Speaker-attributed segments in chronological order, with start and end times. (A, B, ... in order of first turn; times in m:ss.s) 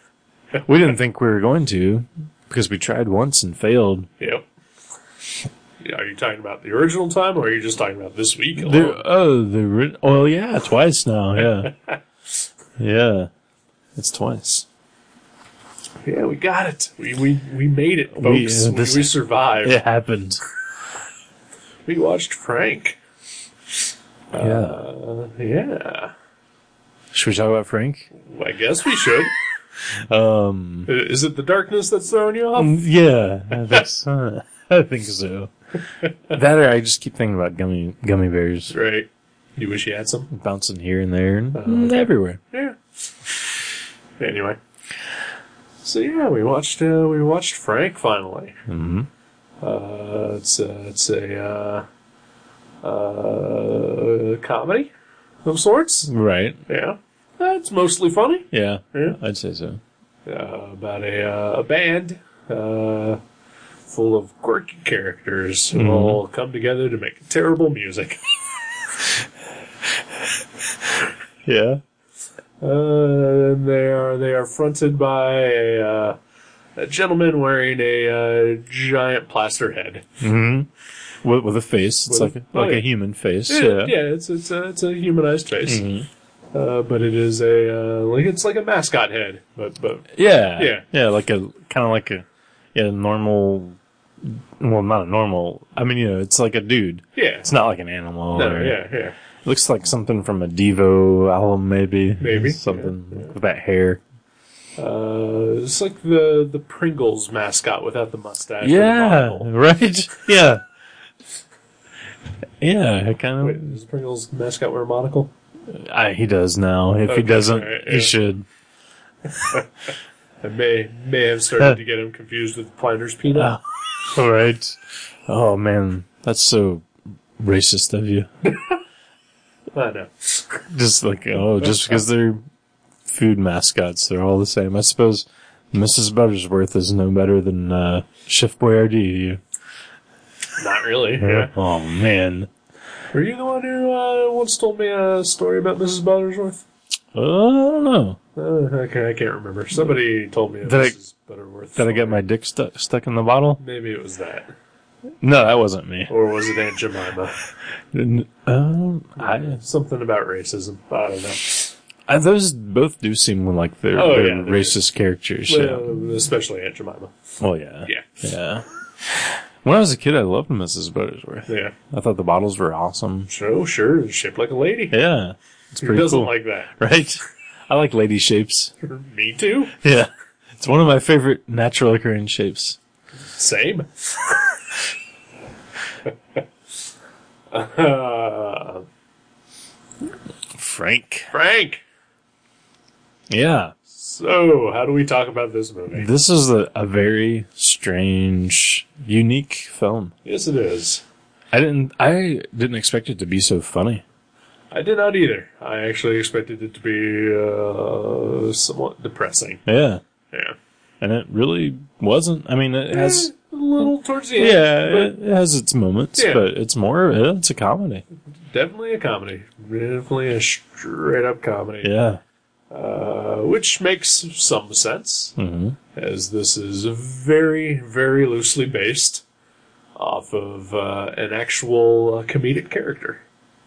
0:00.6-0:04.1 A
0:04.2-0:04.4 B
0:05.8-0:09.0 B
0:08.6-0:11.7 A
0:11.6-0:12.0 B
0:12.8-0:13.3 A
0:14.0-0:14.7 A
0:16.0-0:19.8 B
0:18.2-0:20.4 A
0:21.9-0:23.0 B
0:24.3-0:26.1 B
0:24.4-0:24.8 A
0:27.1-0:28.1 A
0:28.2-0:29.3 B
0:30.0-0:30.9 A
0:30.9-0:32.8 B
0:32.6-0:35.5 A
0:36.3-0:38.7 A
0:38.7-0:40.3 B
0:40.3-0:42.4 A
0:41.5-0:42.8 B
0:44.2-0:44.6 B
0:45.8-0:48.6 B
0:48.7-0:49.1 A
0:49.6-0:51.9 B
0:52.8-0:54.9 B
0:55.4-0:56.1 B
0:56.1-0:56.6 A
0:56.7-0:59.2 B
0:58.5-0:59.8 A
1:00.3-1:03.2 B
1:03.9-1:08.8 B
1:05.7-1:06.2 A
1:11.4-1:11.8 A
1:12.6-1:16.2 B
1:16.8-1:20.0 B
1:20.2-1:20.7 A
1:21.2-1:24.0 A
1:22.1-1:22.9 B
1:23.5-1:25.8 B
1:25.6-1:26.1 A
1:26.5-1:30.8 B
1:30.1-1:38.8 A
1:37.2-1:37.5 B
1:38.4-1:39.2 B
1:39.4-1:44.0 A
1:42.2-1:43.4 B
1:44.8-1:49.5 B
1:48.6-1:50.6 A
1:52.6-1:53.7 A
1:53.4-1:55.3 B
1:55.7-1:58.5 A
1:57.1-1:58.2 B
2:00.4-2:03.5 B
2:03.3-2:08.3 A
2:08.5-2:08.8 B
2:09.7-2:10.6 B
2:10.7-2:12.4 A
2:11.6-2:12.0 B
2:13.1-2:19.4 A
2:20.6-2:21.5 B
2:21.2-2:22.5 A
2:23.1-2:26.6 B
2:27.2-2:28.2 A
2:28.4-2:32.2 B
2:30.6-2:31.0 A
2:31.8-2:33.6 A
2:33.6-2:34.5 B
2:35.2-2:36.1 A
2:36.1-2:37.4 B
2:37.9-2:39.6 A
2:39.2-2:41.8 B
2:42.1-2:45.9 A
2:43.9-2:44.8 B
2:45.5-2:47.1 B
2:47.4-2:53.3 A
2:51.5-2:51.8 B
2:53.3-2:55.0 B
2:54.9-2:58.7 A
2:55.8-2:56.7 B
2:58.8-2:59.8 B
2:59.8-3:02.8 A
3:03.3-3:04.6 B
3:07.5-3:08.9 B
3:10.6-3:11.3 A
3:11.3-3:11.8 B
3:13.3-3:13.7 A
3:13.9-3:16.1 B
3:15.9-3:20.1 A
3:20.2-3:21.0 B
3:21.5-3:24.0 A
3:24.7-3:29.6 B
3:29.7-3:30.0 A
3:30.3-3:30.6 B
3:31.0-3:33.3 A
3:32.9-3:35.1 B
3:34.4-3:38.0 A
3:36.2-3:36.5 B
3:38.5-3:41.9 B
3:41.8-3:42.2 A
3:42.7-3:45.4 B
3:45.4-3:45.8 A
3:45.9-3:49.2 B
3:50.0-3:53.2 B